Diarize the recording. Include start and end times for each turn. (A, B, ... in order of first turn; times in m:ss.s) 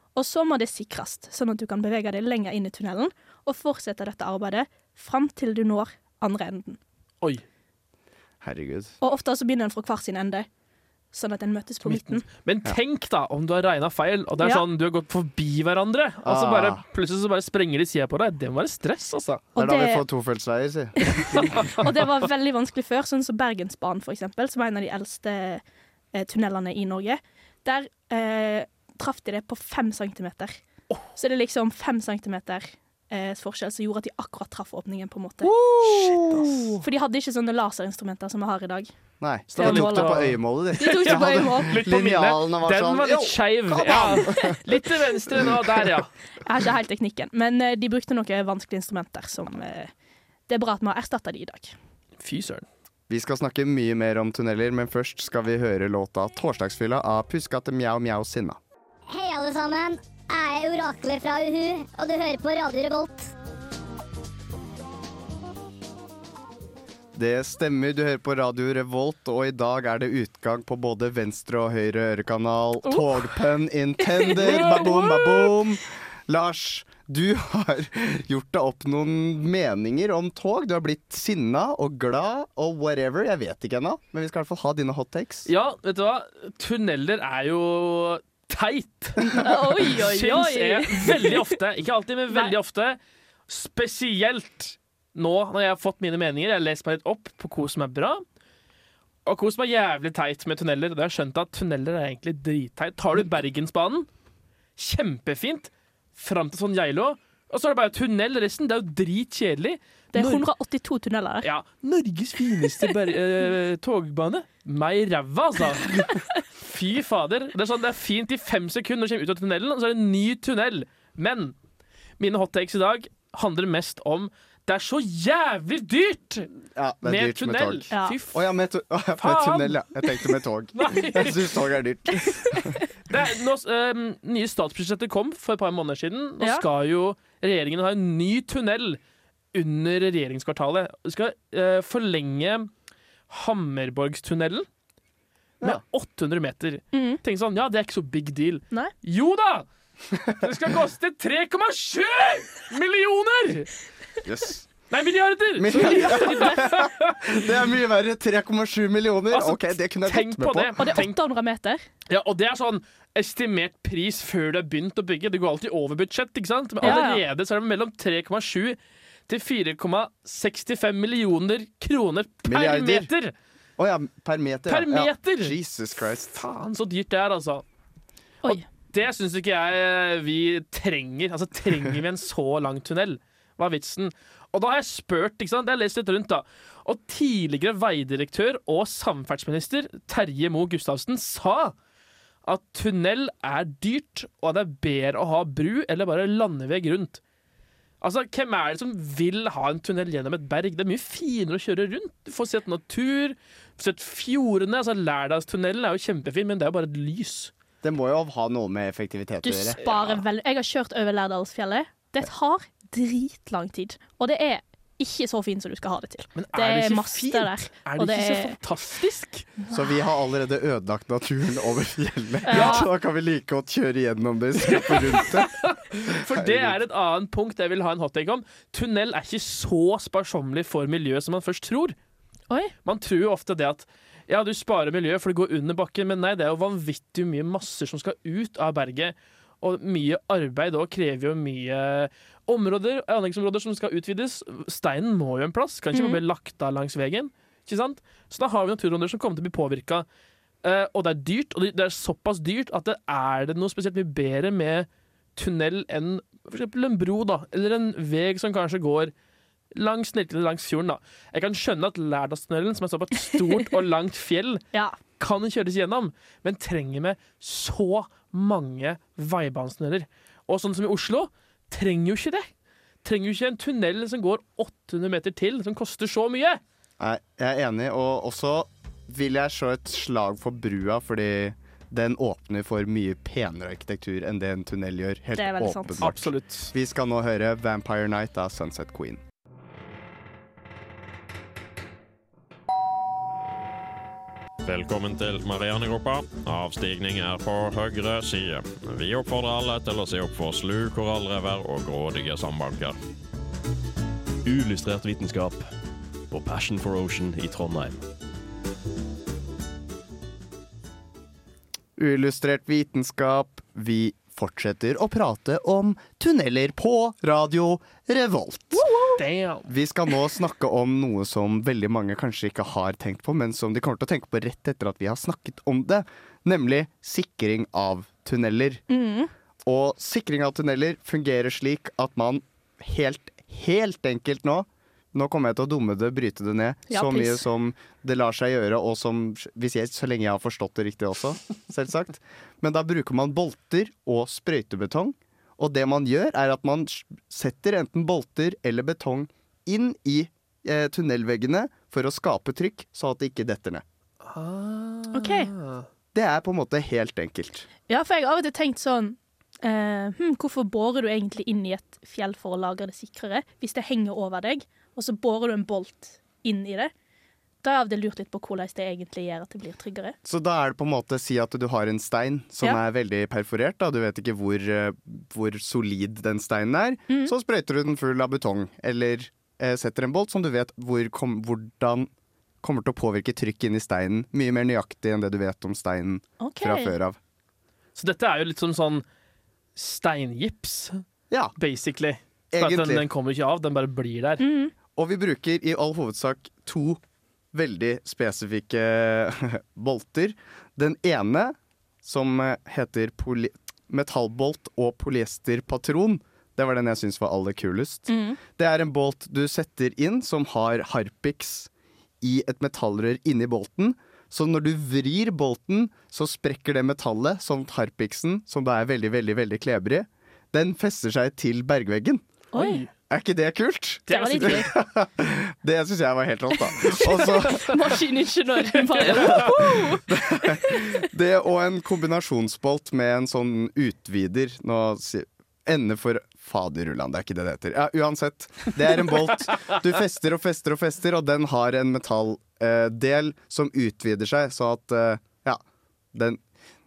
0:00.2-0:06.8 A
0:08.4-0:08.9 B
0:09.0-0:10.5 A
0:11.1-0:12.2 A
0:11.8-0:19.5 C
0:16.2-0:16.8 B
0:19.6-0:20.0 A
0:19.6-0:21.6 B
0:21.0-0:25.6 A
0:21.3-0:21.9 C
0:26.1-0:30.6 A
0:31.1-0:35.5 A
0:35.4-0:36.7 B
0:36.3-0:38.9 A
0:39.2-0:44.6 B
0:39.5-0:46.1 C
0:39.6-0:41.8 A
0:46.4-0:49.9 A
0:50.5-0:51.8 A
0:52.2-0:52.6 C
0:53.1-0:58.6 B
0:59.1-1:03.3 D
1:07.2-1:25.5 B
1:12.9-1:13.4 A
1:14.0-1:15.5 A
1:14.4-1:15.0 C
1:25.5-1:38.2 C
1:29.3-1:31.4 A
1:39.3-1:44.1 C
1:44.8-1:50.5 C
1:50.1-1:51.5 A
1:51.4-2:01.6 C
2:02.2-2:06.5 C
2:06.8-2:12.7 B
2:07.0-2:08.4 C
2:09.2-2:11.6 C
2:13.1-2:19.0 C
2:19.5-2:22.7 C
2:23.3-2:24.7 C
2:25.6-2:29.6 C
2:26.9-2:27.2 A
2:30.1-2:30.4 B
2:30.4-2:33.7 C
2:34.2-2:34.7 B
2:34.9-2:37.2 C
2:35.6-2:41.0 B
2:35.8-2:36.6 A
2:39.3-2:41.2 C
2:40.8-2:41.8 A
2:42.1-2:53.3 C
2:46.8-2:47.2 A
2:52.5-2:53.1 B
2:53.8-2:56.4 B
2:54.7-2:55.6 C
2:56.3-2:57.6 C
2:58.4-3:11.7 C
3:12.5-3:17.2 C
3:18.0-3:27.5 C
3:27.8-3:29.8 B
3:29.4-3:38.6 A
3:36.4-3:39.5 C
3:39.7-3:45.6 B
3:42.5-3:42.9 A
3:42.5-3:42.8 C
3:44.7-3:52.0 C
3:46.3-3:46.8 B
3:52.8-4:10.1 C
4:05.9-4:06.2 A
4:10.6-4:19.1 C
4:19.7-4:24.6 C
4:25.2-4:32.5 C
4:33.0-4:36.6 C
4:37.0-4:49.2 B
4:45.4-4:46.1 A
4:46.0-4:46.7 C
4:54.6-5:03.0 E
5:04.4-5:05.7 F
5:06.3-5:08.0 F
5:12.0-5:18.9 B
5:18.8-5:19.2 A
5:19.2-5:19.7 C
5:19.7-5:28.8 B
5:28.9-5:29.3 A
5:29.6-5:53.8 B
5:36.9-5:37.4 A
5:54.2-5:55.9 C
5:55.1-5:55.5 A
5:56.1-5:57.7 B
5:57.9-6:06.9 A
6:07.6-6:10.2 A
6:10.2-6:22.1 B
6:22.6-6:27.2 B
6:26.4-6:26.9 A
6:28.0-6:29.0 C
6:29.8-6:31.0 C
6:31.6-6:34.4 C
6:32.5-6:33.0 B
6:34.4-6:34.7 A
6:35.0-6:37.0 B
6:37.5-6:51.7 B
6:48.1-6:48.4 A
6:52.2-7:02.2 B
7:02.5-7:02.8 A
7:02.6-7:02.9 C
7:03.1-7:07.9 B
7:04.1-7:04.7 C
7:04.1-7:04.7 A
7:06.8-7:10.8 A
7:09.0-7:25.6 B
7:09.0-7:09.5 C
7:26.1-7:26.4 B